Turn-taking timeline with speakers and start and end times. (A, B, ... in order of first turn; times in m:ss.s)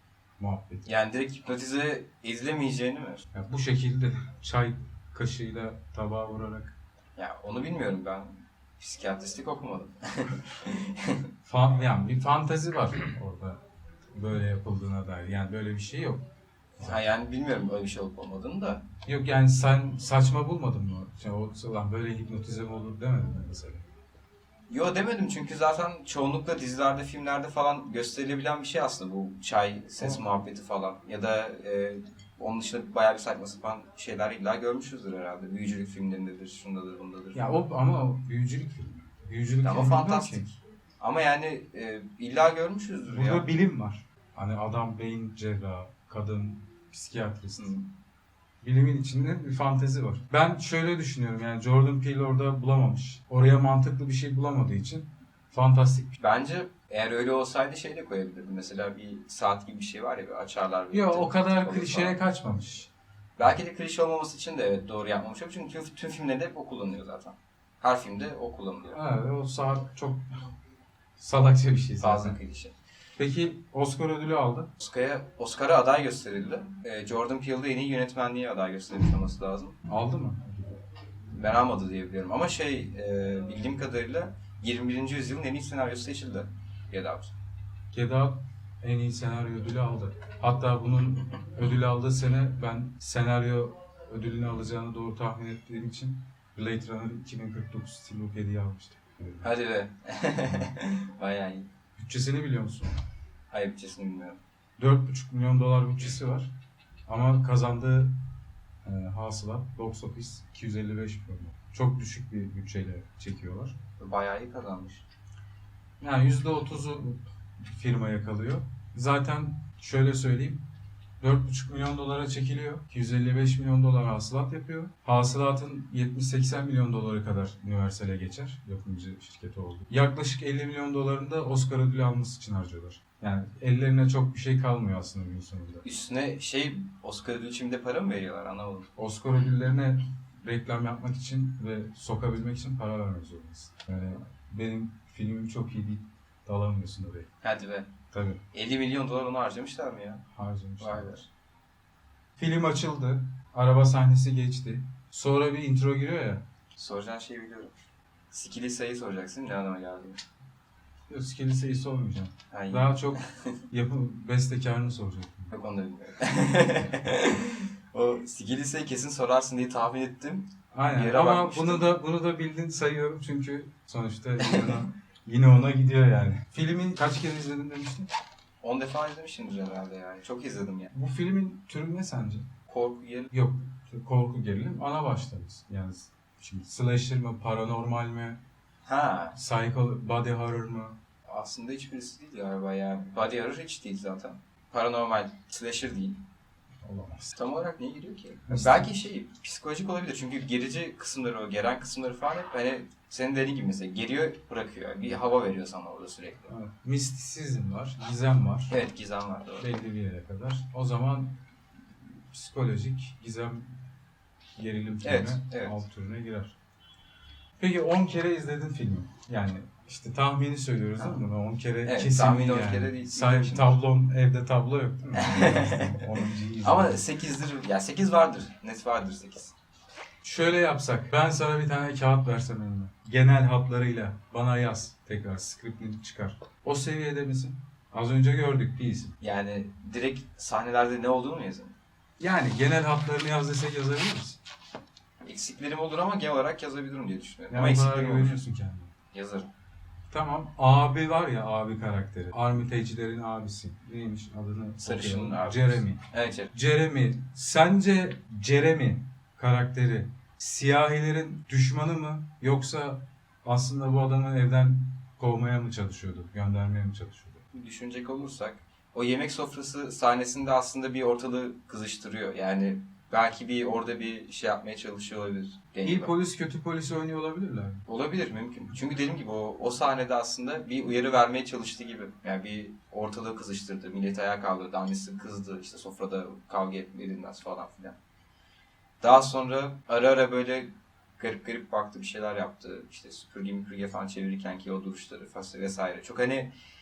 0:00.4-0:00.8 A
0:00.8-0:03.3 B
0:03.3-0:06.8 A
0:07.2-0:11.3 B
0:11.4-0:13.6 A
0:14.1-0:16.2 A
0:16.8-0:18.8 B
0:19.0-0:23.8 A
0:24.7-0:37.6 B
0:30.0-0:30.2 A
0:37.3-0:40.5 A
0:39.6-0:43.5 B
0:43.1-0:47.7 A
0:47.6-0:47.9 B
0:48.6-0:56.2 A
0:56.2-1:02.2 B
1:00.9-1:02.9 A
1:03.4-1:09.0 B
1:08.9-1:10.5 A
1:11.2-1:12.4 A
1:12.0-1:12.7 B
1:13.2-1:14.7 A
1:14.8-1:19.8 B
1:19.8-1:20.8 A
1:21.3-1:27.4 B
1:27.9-1:39.5 A
1:39.4-1:41.7 B
1:42.0-1:42.9 A
1:43.5-1:44.4 B
1:44.8-1:46.5 A
1:47.1-1:48.1 A
1:48.8-1:53.8 A
1:54.0-1:55.0 B
1:56.0-2:00.6 A
2:01.2-2:15.8 A
2:15.8-2:18.9 B
2:19.0-2:27.3 A
2:27.4-2:27.9 B
2:28.1-2:28.4 A
2:28.5-2:30.2 B
2:30.3-2:31.1 A
2:30.8-2:31.3 B
2:32.4-2:36.4 A
2:36.8-2:37.7 B
2:38.3-2:40.2 B
2:41.1-2:45.5 A
2:42.5-2:43.6 B
2:45.5-2:51.9 B
2:50.7-2:58.1 A
2:54.4-2:54.8 B
2:58.6-3:00.9 B
3:00.9-3:02.5 A
3:02.7-3:03.3 B
3:03.3-3:08.4 A
3:08.9-3:09.4 B
3:09.3-3:11.0 A
3:11.2-3:16.2 B
3:16.8-3:17.4 A
3:17.4-3:26.5 B
3:18.5-3:19.0 A
3:26.5-3:28.7 A
3:28.7-3:29.7 B
3:29.6-3:31.3 A
3:31.9-3:33.8 A
3:34.6-3:36.6 A
3:35.0-3:35.8 B
3:37.6-3:47.0 A
3:41.8-3:43.8 B
3:45.2-3:46.1 B
3:46.6-3:49.5 B
3:50.2-3:59.2 A
3:59.2-4:01.8 B
4:02.2-4:04.4 A
4:05.2-4:08.4 B
4:07.5-4:08.9 A
4:09.1-4:09.5 B
4:10.1-4:27.4 A
4:14.8-4:16.5 B
4:27.5-4:36.1 B
4:35.8-4:37.8 A
4:37.9-4:48.0 B
4:49.0-4:56.5 B